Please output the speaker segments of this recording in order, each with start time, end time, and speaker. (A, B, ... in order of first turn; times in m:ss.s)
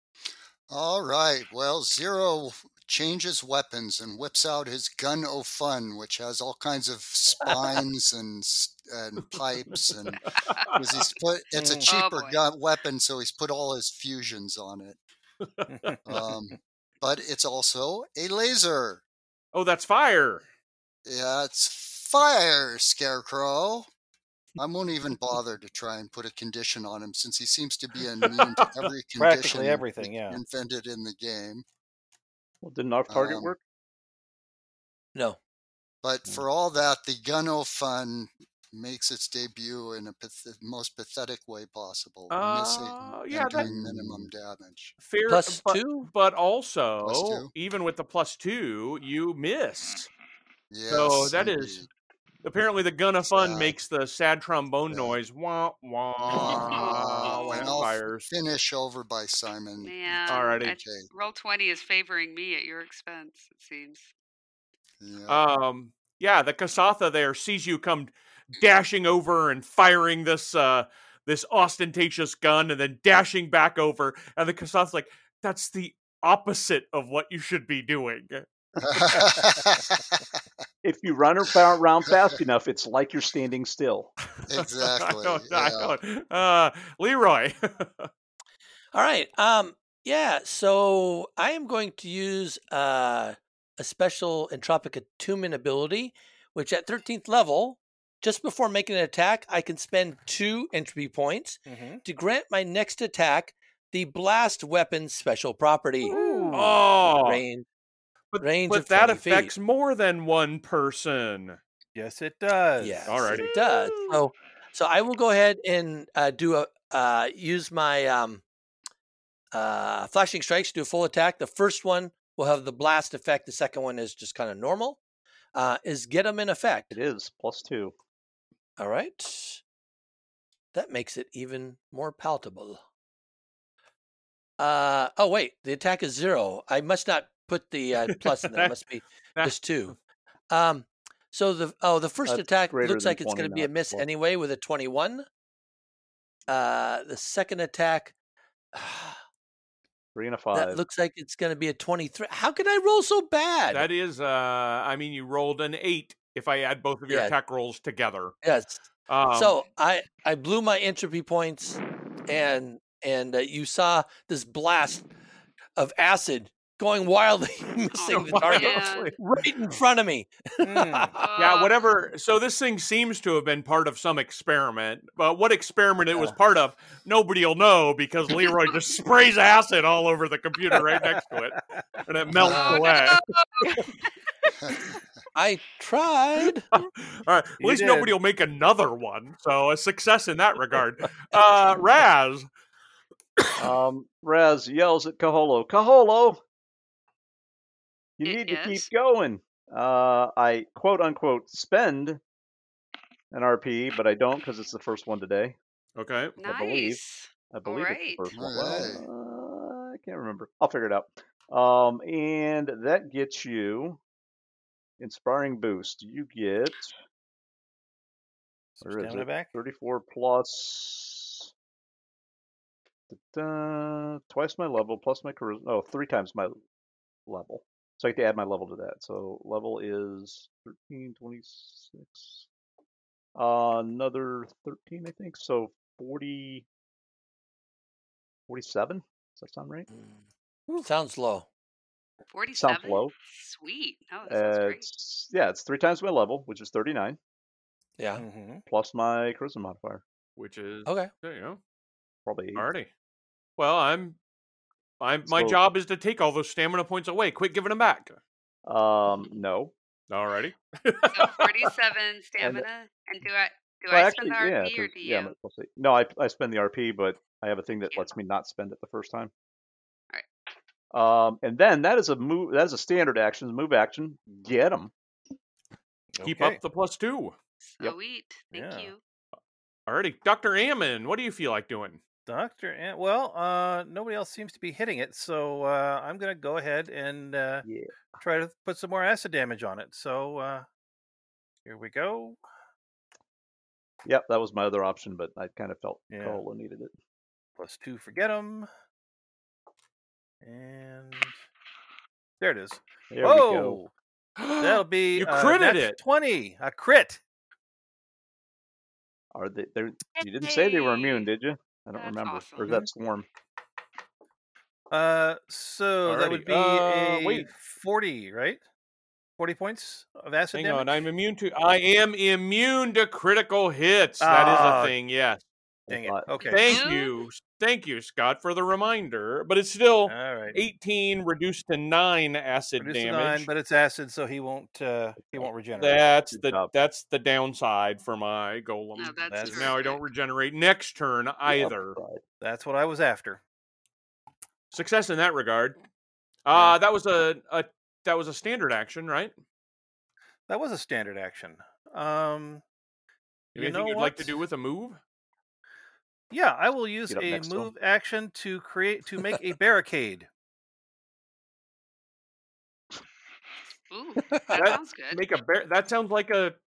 0:00.7-0:15.0 A
0:10.2-0:10.6 B
0:10.4-0:10.7 C
0:11.5-0:11.9 D
0:11.8-0:12.4 C
0:15.6-0:15.9 B
0:15.7-0:16.2 D
0:16.1-0:19.0 A
0:19.5-0:20.4 B
0:21.1-0:23.9 A
0:24.6-0:31.6 A
0:29.2-0:30.4 D
0:32.6-0:33.6 E
0:33.1-0:33.5 A
0:36.0-0:45.0 A
0:42.3-0:43.7 B
0:43.7-0:44.2 E
0:45.0-0:50.1 B
0:45.3-0:46.1 F
0:47.0-0:47.5 A
0:50.7-0:51.9 A
0:50.9-0:51.9 B
0:52.4-0:58.3 B
0:53.3-0:53.8 A
0:54.9-0:55.2 A
0:56.3-1:01.1 A
0:56.4-0:57.8 C
0:59.8-1:04.1 C
1:00.3-1:00.8 B
1:05.0-1:05.4 A
1:05.3-1:18.5 B
1:18.8-1:20.2 A
1:20.8-1:24.1 E
1:24.5-1:25.9 A
1:24.6-1:28.1 B
1:28.9-1:46.2 F
1:41.7-1:42.0 D
1:46.1-1:46.8 D
1:46.5-1:47.4 B
1:47.0-1:47.7 F
1:48.3-1:51.6 B
1:48.4-1:49.5 F
1:52.0-1:53.3 D
1:52.8-1:58.4 F
1:53.1-1:53.5 B
1:59.5-2:05.0 F
2:05.6-2:07.0 F
2:06.9-2:07.9 E
2:08.8-2:09.6 F
2:10.7-2:12.8 F
2:14.6-2:20.0 F
2:18.1-2:18.7 B
2:20.5-2:25.3 F
2:22.2-2:24.1 E
2:26.5-2:28.1 F
2:28.7-2:29.2 F
2:30.2-2:30.8 E
2:30.5-2:33.9 F
2:33.7-2:38.3 B
2:37.1-2:37.4 F
2:38.4-2:45.1 F
2:39.1-2:39.6 B
2:45.8-2:51.3 F
2:47.9-2:49.1 C
2:48.1-2:49.2 B
2:50.6-2:51.2 D
2:51.2-2:51.8 C
2:51.4-3:03.2 B
3:02.5-3:03.8 C
3:05.3-3:06.7 F
3:06.7-3:12.5 B
3:07.6-3:08.1 D
3:13.6-3:16.4 E
3:18.2-3:22.2 E
3:18.2-3:18.9 C
3:23.3-3:25.6 E
3:26.0-3:26.4 B
3:26.4-3:28.3 C
3:26.4-3:34.0 E
3:28.3-3:29.1 A
3:35.0-3:36.9 E
3:38.8-3:39.5 D
3:38.8-3:41.5 E
3:43.1-3:46.6 E
3:47.3-3:52.5 E
3:53.4-3:56.7 E
3:58.5-3:59.9 E
3:59.9-4:00.2 F
4:00.8-4:01.5 F
4:02.3-4:04.8 C
4:02.6-4:03.1 E
4:04.3-4:07.2 E
4:08.0-4:08.2 F
4:08.2-4:08.6 D
4:08.7-4:10.0 E
4:10.4-4:11.6 B
4:12.3-4:12.7 E
4:12.6-4:12.9 B
4:13.6-4:14.2 B
4:15.0-4:18.2 B
4:15.3-4:15.6 E
4:18.7-4:19.7 E
4:20.1-4:21.7 B
4:21.1-4:25.3 C
4:22.4-4:22.6 E
4:23.9-4:29.3 E
4:30.9-4:34.9 E
4:36.2-4:36.6 D
4:36.2-4:37.4 B
4:37.6-4:39.0 C
4:38.5-4:38.9 D
4:39.9-4:42.0 B
4:42.3-4:47.7 D
4:47.6-4:47.9 E
4:48.2-4:50.7 D
4:51.7-4:52.4 D
4:54.0-4:56.9 E
4:56.1-4:56.4 D
4:57.6-4:58.7 D
5:00.4-5:01.4 D
5:02.4-5:03.9 D
5:03.1-5:03.8 E
5:04.4-5:06.0 B
5:04.6-5:07.2 D
5:09.3-5:13.3 E
5:10.4-5:11.3 C
5:12.0-5:12.8 C
5:14.9-5:18.6 D
5:16.0-5:17.5 B
5:19.4-5:20.9 D
5:20.5-5:25.4 B
5:24.2-5:25.0 D
5:25.9-5:26.3 E
5:25.9-5:26.8 D
5:26.5-5:33.5 B
5:26.7-5:27.1 C
5:30.1-5:30.6 D
5:32.8-5:36.1 D
5:35.2-5:35.5 E
5:35.8-5:42.0 B
5:36.3-5:36.7 E
5:39.0-5:40.0 C
5:39.3-5:39.7 D
5:41.5-5:42.2 E
5:42.4-5:43.4 D
5:44.7-5:45.8 B
5:46.5-5:49.3 B
5:50.5-5:52.6 D
5:53.6-5:55.0 B
5:53.6-5:54.3 D
5:56.3-6:00.3 D
5:57.1-5:57.7 E
6:03.9-6:05.2 C
6:04.5-6:06.6 B